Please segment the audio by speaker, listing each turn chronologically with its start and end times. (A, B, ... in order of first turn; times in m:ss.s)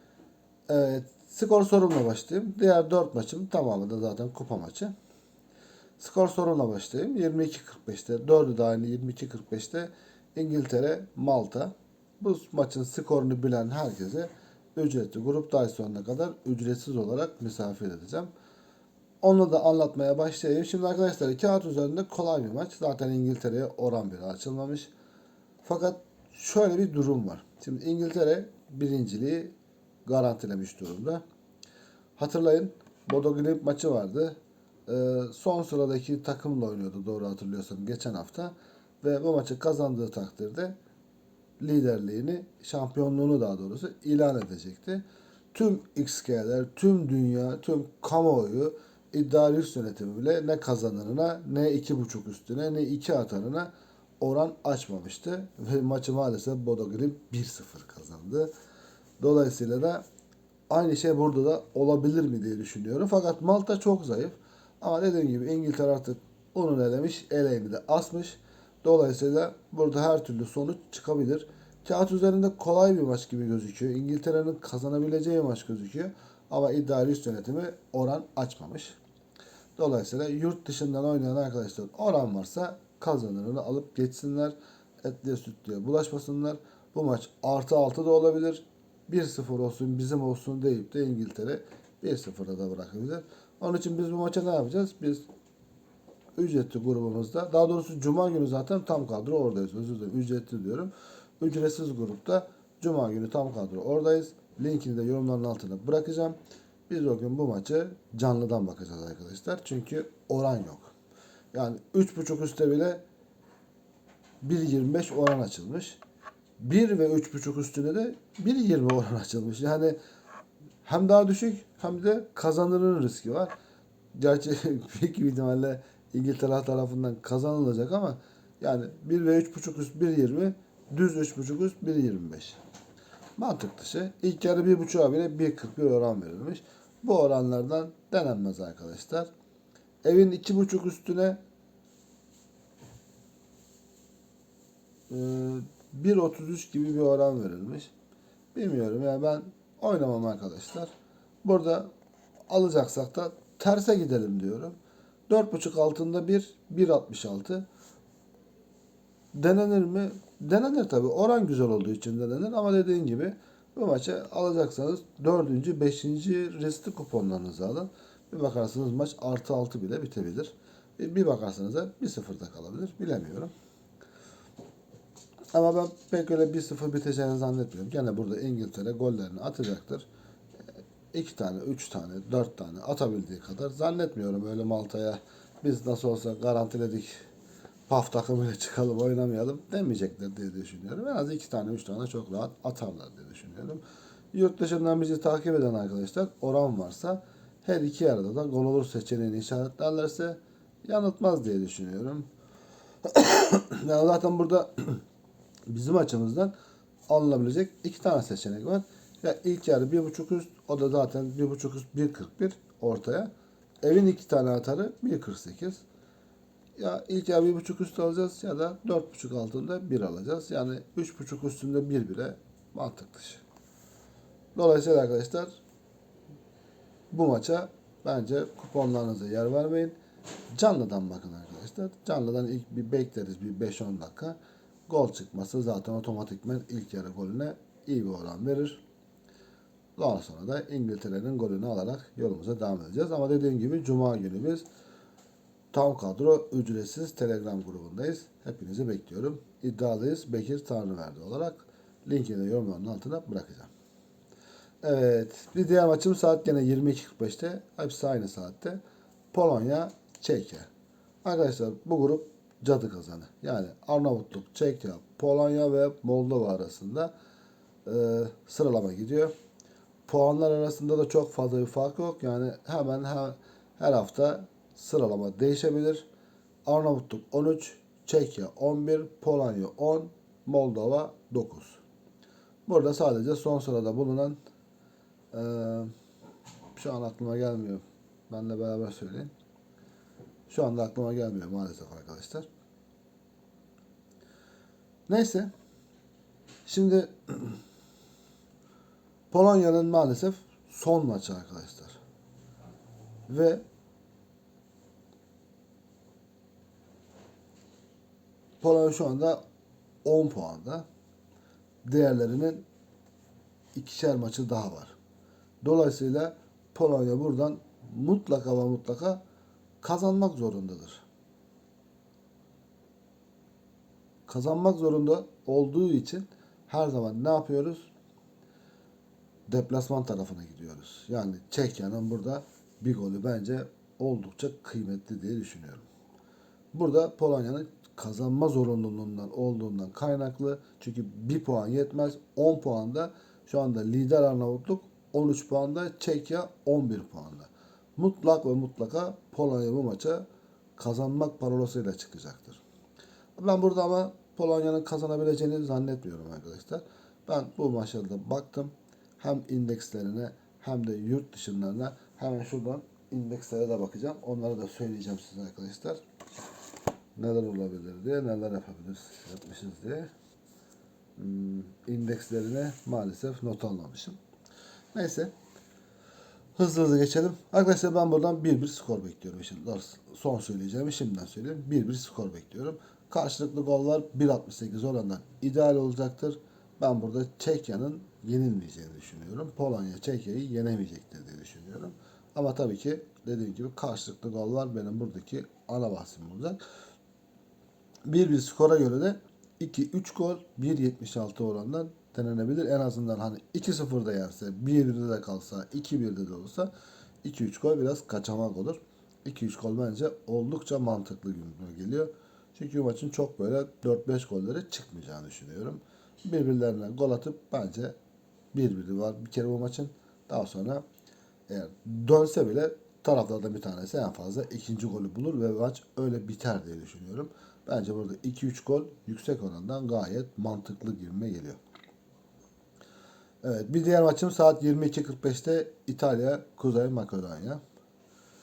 0:00.7-0:04.9 A
0:06.0-0:18.3 A
0:19.2-0:24.9 A
0:25.6-0:31.2 A
0:32.2-0:40.8 A
0:41.6-0:58.5 A
0:59.2-1:00.0 A
1:00.7-1:19.0 A
1:19.8-1:35.2 A
1:36.4-1:46.4 A
1:46.9-1:50.9 A
1:51.5-1:53.0 A
1:54.4-1:56.0 A
1:56.6-2:00.0 A
2:00.8-2:03.5 A
2:04.1-2:12.6 A
2:13.4-2:19.3 A
2:20.0-2:21.4 A
2:25.1-2:27.9 A
2:28.5-2:30.9 A
2:31.4-2:31.9 A
2:32.5-2:34.8 A
2:35.3-2:37.6 A
2:39.3-2:53.5 A
2:55.5-3:00.1 A
3:01.1-3:07.2 A
3:07.9-3:13.8 A
3:14.3-3:22.3 A
3:23.0-3:25.0 A
3:25.7-3:26.5 A
3:27.1-3:33.3 A
3:33.8-3:35.8 A
3:36.8-3:43.4 A
3:44.5-3:45.6 A
3:47.1-3:50.0 A
3:50.5-3:54.4 A
3:54.9-3:58.8 A
4:00.0-4:04.6 A
4:05.7-4:13.7 A
4:14.8-4:18.8 A
4:19.3-4:20.7 A
4:21.2-4:27.1 A
4:27.8-4:29.3 A
4:30.0-4:36.0 A
4:36.6-4:41.8 A
4:42.6-4:44.4 A
4:45.3-4:45.9 A
4:46.7-4:49.3 A
4:50.5-4:52.5 A
4:55.1-4:55.5 A
4:56.6-4:57.6 A
4:59.3-5:02.0 A
5:03.3-5:03.6 A
5:08.6-5:09.4 A
5:10.0-5:10.8 A
5:11.8-5:12.6 A
5:13.7-5:14.9 A
5:15.6-5:19.2 A
5:19.8-5:21.0 A
5:24.3-5:27.9 A
5:29.5-5:35.9 A
5:36.7-5:50.2 A
5:50.8-5:52.6 A
5:53.4-6:06.0 A
6:07.2-6:10.1 A
6:11.2-6:14.2 A
6:14.9-6:15.3 A
6:16.5-6:36.6 A
6:38.1-6:46.7 A
6:47.2-6:57.9 A
6:58.5-7:00.8 A
7:01.5-7:11.6 A
7:13.4-7:17.6 A